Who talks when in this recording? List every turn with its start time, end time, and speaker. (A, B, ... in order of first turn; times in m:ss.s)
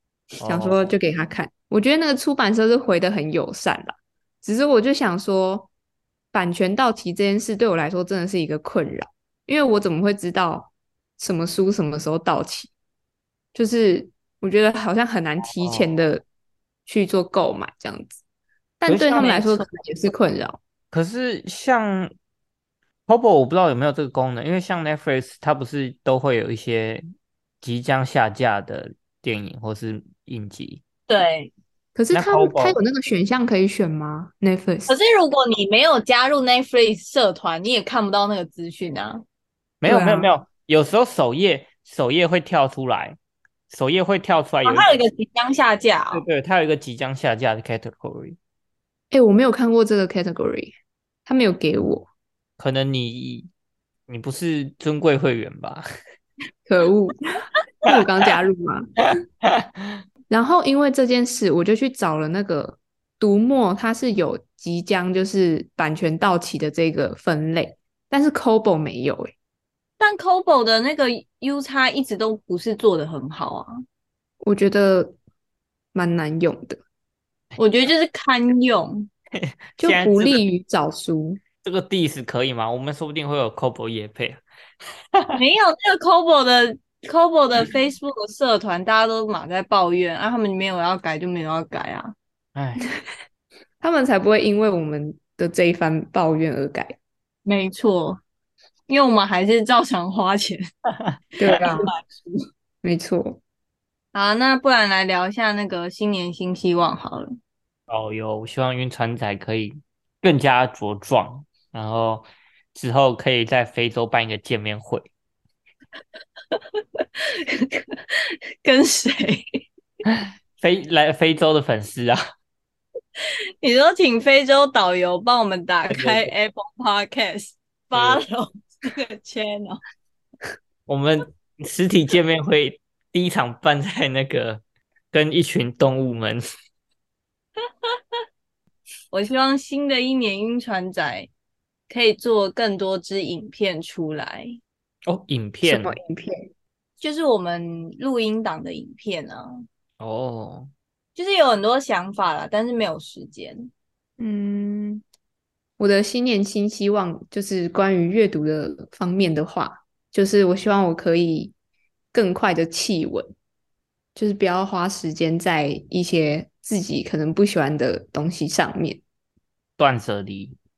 0:00.4-0:00.8 A
0:00.4-0:05.7 B
0:06.3-0:12.7 B
0:13.5-0:16.2 B
0:15.6-0:16.0 A
0:16.9-0:18.2 B
0:18.8-0:20.6 B
0:18.9-0:19.6 A
0:20.9-0:22.1 A
0:23.1-0:27.0 A
0:27.6-0:30.8 A
0:31.1-0:31.5 C
0:32.0-0:35.0 B
0:32.1-0:32.8 A
0:34.9-0:39.2 C
0:39.8-0:43.2 A
0:39.8-0:40.3 B
0:43.7-0:45.0 A
0:44.6-0:46.2 C
0:46.1-0:48.4 A
0:49.1-0:50.7 B
0:51.3-0:52.1 B
0:52.6-0:53.5 A
0:54.1-0:55.8 A
0:56.7-0:59.0 B
0:59.4-0:59.9 A
1:00.3-1:09.3 B
1:10.0-1:13.7 C
1:14.4-1:15.2 B
1:15.9-1:16.8 B
1:17.6-1:19.1 C
1:19.4-1:20.4 A
1:19.8-1:21.4 B
1:21.6-1:24.4 A
1:25.2-1:25.4 A
1:25.4-1:32.1 C
1:32.6-1:32.9 A
1:33.8-1:37.0 B
1:37.5-1:38.2 C
1:38.9-1:40.6 C
1:41.4-1:41.9 B
1:41.5-1:42.4 C
1:42.8-1:43.4 B
1:44.1-1:47.3 C
1:47.9-1:55.1 A
1:56.5-1:59.4 C
2:00.0-2:02.2 A
2:03.6-2:09.8 C
2:05.9-2:06.3 A
2:07.9-2:08.2 A
2:10.9-2:16.5 A
2:19.1-2:21.3 C
2:21.9-2:24.6 C
2:25.1-2:26.0 A
2:25.6-2:26.4 B
2:27.0-2:29.6 C
2:30.0-2:30.7 A
2:31.2-2:33.7 C
2:34.2-2:35.0 B
2:35.8-2:41.5 B
2:42.1-2:43.3 B
2:44.2-2:49.0 B
2:49.8-2:50.6 A